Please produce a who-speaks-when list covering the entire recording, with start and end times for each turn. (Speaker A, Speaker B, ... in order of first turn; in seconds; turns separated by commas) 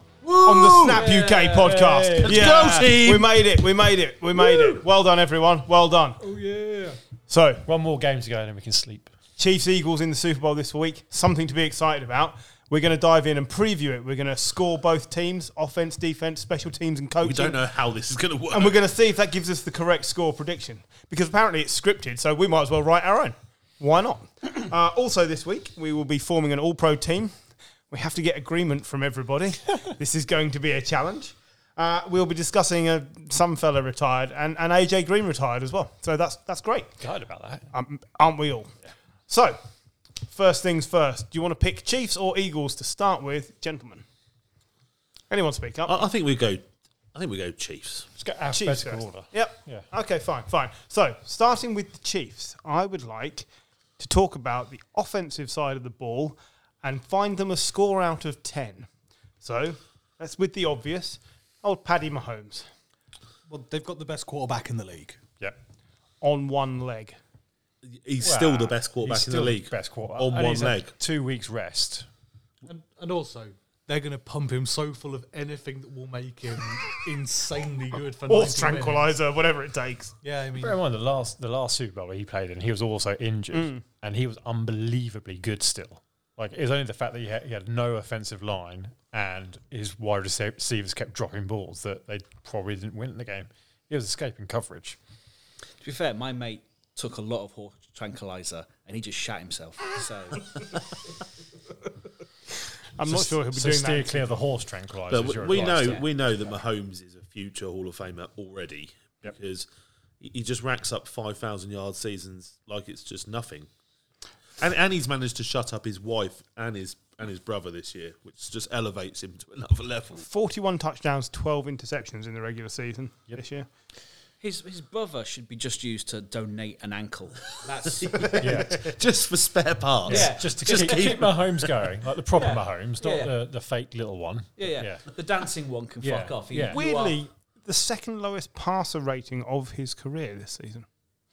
Speaker A: 0.2-1.1, Speaker B: 0.4-6.2, Speaker C: 0.9-2.5, Speaker D: 1.2-1.6, Speaker A: 2.2-3.4, Speaker C: 4.3-4.8, Speaker C: 6.2-7.0, Speaker B: 7.3-7.6, Speaker C: 7.6-9.1, Speaker B: 9.4-17.6, Speaker A: 17.2-18.8, Speaker B: 18.5-27.4, Speaker B: 27.9-36.9, Speaker C: 37.0-37.7, Speaker B: 37.7-38.7, Speaker B: 39.3-39.6, Speaker B: 40.3-44.0, Speaker B: 45.3-45.9, Speaker A: 45.8-48.1, Speaker C: 48.2-49.9, Speaker B: 48.5-53.5, Speaker B: 54.0-58.9, Speaker B: 59.4-62.7, Speaker E: 63.5-65.2, Speaker B: 66.2-67.2, Speaker A: 67.8-70.9, Speaker C: 68.2-72.1, Speaker E: 72.6-79.1, Speaker B: 78.2-80.1, Speaker E: 80.2-80.8, Speaker C: 80.5-95.0, Speaker B: 83.5-83.8, Speaker D: 95.8-100.8, Speaker B: 102.9-104.4, Speaker C: 103.0-106.0, Speaker A: 105.1-109.7, Speaker D: 105.5-106.1, Speaker A: 110.2-113.7, Speaker A: 114.6-120.3, Speaker B: 120.2-123.7, Speaker D: 124.4-128.5, Speaker A: 127.8-131.7, Speaker C: 128.4-128.9, Speaker D: 130.1-131.2, Speaker C: 130.1-135.1, Speaker D: 132.3-133.3, Speaker D: 134.6-137.2, Speaker C: 136.0-136.8, Speaker B: 136.7-140.8